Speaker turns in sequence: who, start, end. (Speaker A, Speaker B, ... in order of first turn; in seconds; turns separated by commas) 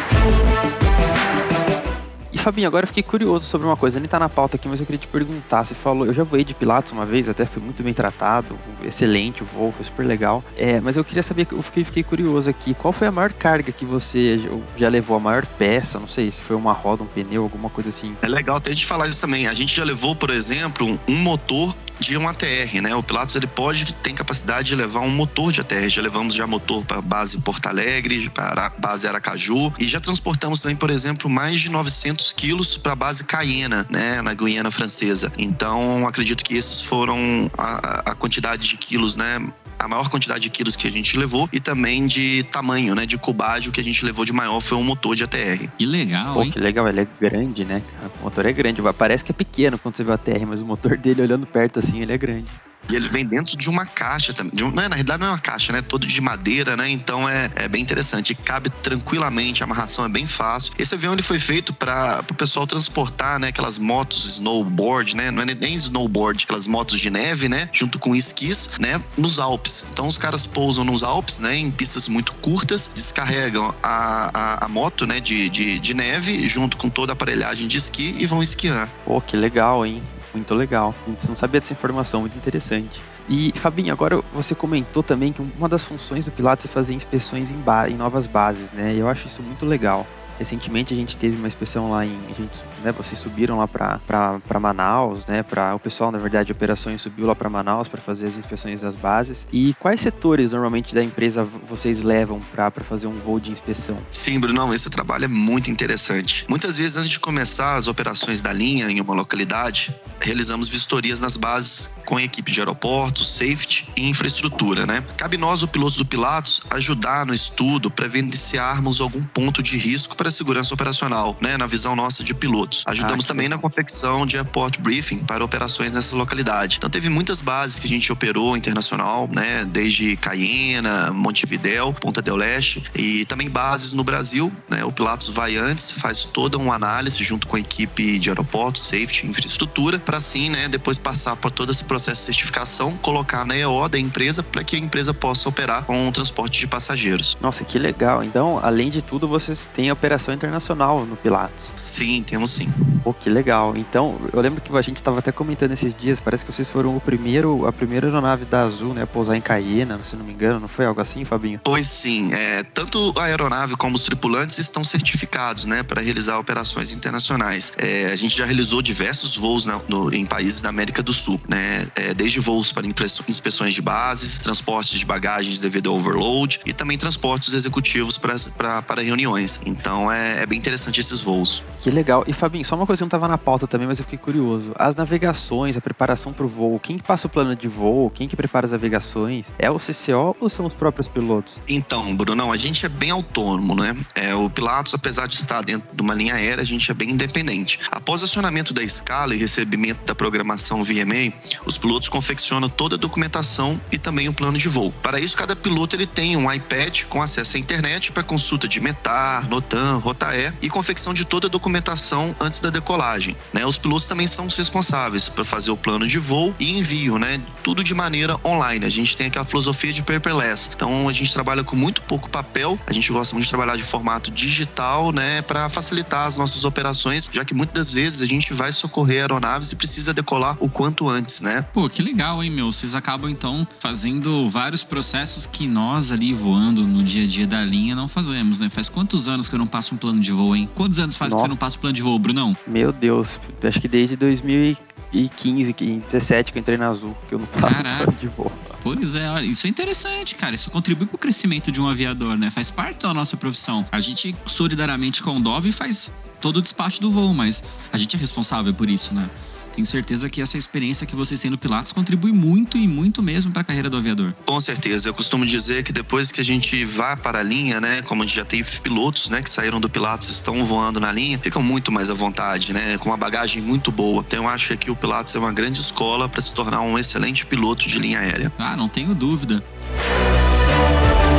Speaker A: 2.3-18.2, Speaker B: 18.2-45.7, Speaker C: 45.8-46.5, Speaker A: 46.3-52.6, Speaker B: 52.9-78.9, Speaker A: 79.1-104.1, Speaker B: 104.1-147.3, Speaker A: 123.0-123.6, Speaker A: 147.4-151.8, Speaker B: 151.8-153.0, Speaker A: 153.1-161.6, Speaker B: 161.7-181.6, Speaker A: 181.8-191.6, Speaker B: 191.7-231.7, Speaker C: 231.7-242.6, Speaker A: 241.2-241.5, Speaker A: 242.7-248.7, Speaker C: 247.6-248.1, Speaker C: 248.8-264.4, Speaker B: 264.5-278.5, Speaker C: 278.6-279.6